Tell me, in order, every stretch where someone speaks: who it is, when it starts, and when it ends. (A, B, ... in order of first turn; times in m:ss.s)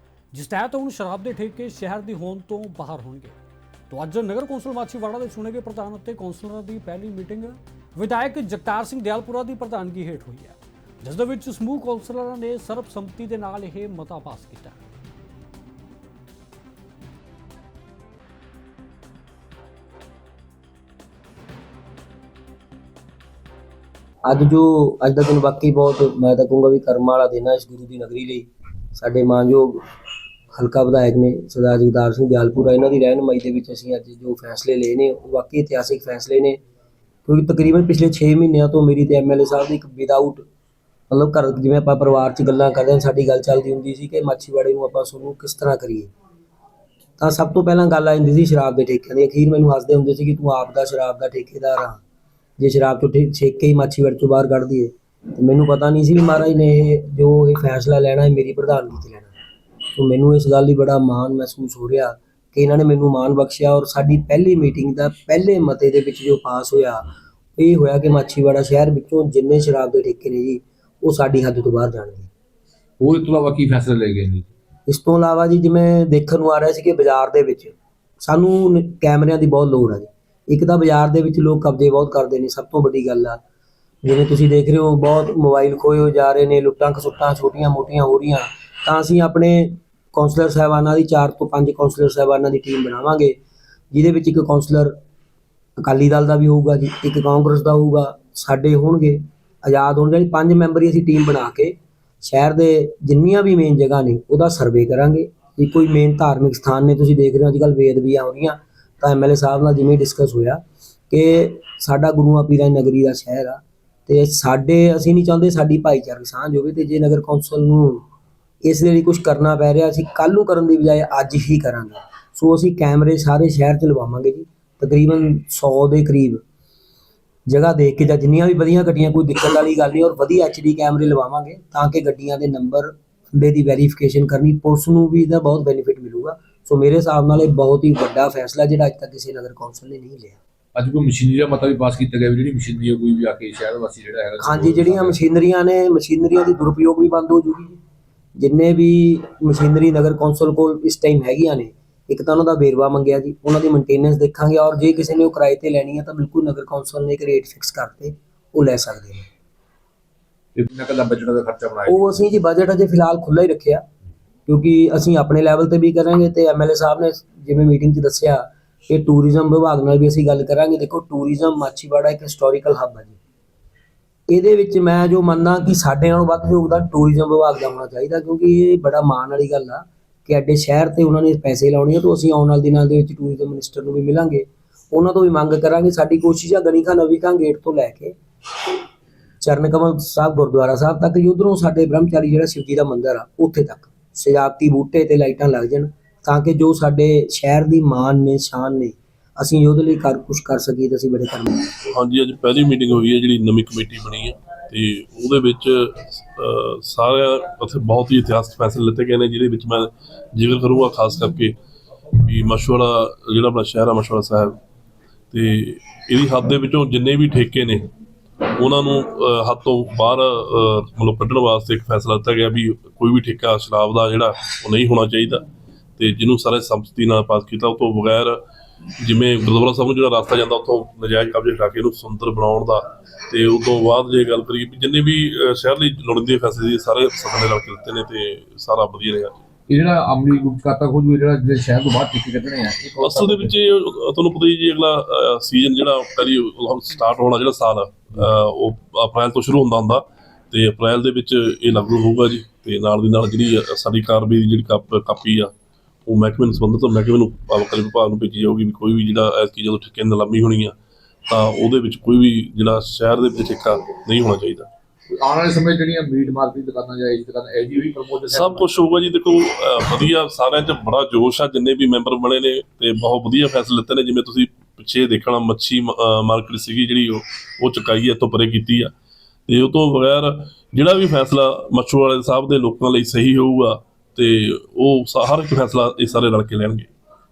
0:00.3-0:03.4 A
0:03.9-0:14.8 A
0:24.2-0:29.8 B
0:30.5-0:36.6 B
0:37.2-0:40.4 B
0:41.1-0:46.1 B
0:47.2-0:52.0 B
0:52.6-0:59.3 B
1:00.0-1:12.3 B
1:13.0-1:14.5 C
1:14.9-1:23.4 B
1:24.0-1:33.4 B
1:33.9-1:34.9 B
1:35.8-1:58.0 B
1:58.6-2:06.4 B
2:07.5-2:20.4 B
2:20.7-2:25.2 C
2:24.4-2:27.8 B
2:28.4-2:39.3 B
2:40.5-2:42.1 C
2:41.9-2:43.8 B
2:44.5-2:53.2 B
2:54.3-3:08.1 B
3:09.4-3:21.7 B
3:21.9-3:31.5 D
3:32.1-3:34.5 D
3:35.3-3:37.9 D
3:38.5-3:45.4 D
3:46.0-3:48.4 D
3:49.0-3:59.3 D
3:59.7-4:03.5 C
4:03.0-4:15.5 D
4:16.0-4:20.8 D
4:21.3-4:24.7 D
4:25.1-4:29.0 C
4:28.3-4:38.9 D
4:39.5-4:46.9 D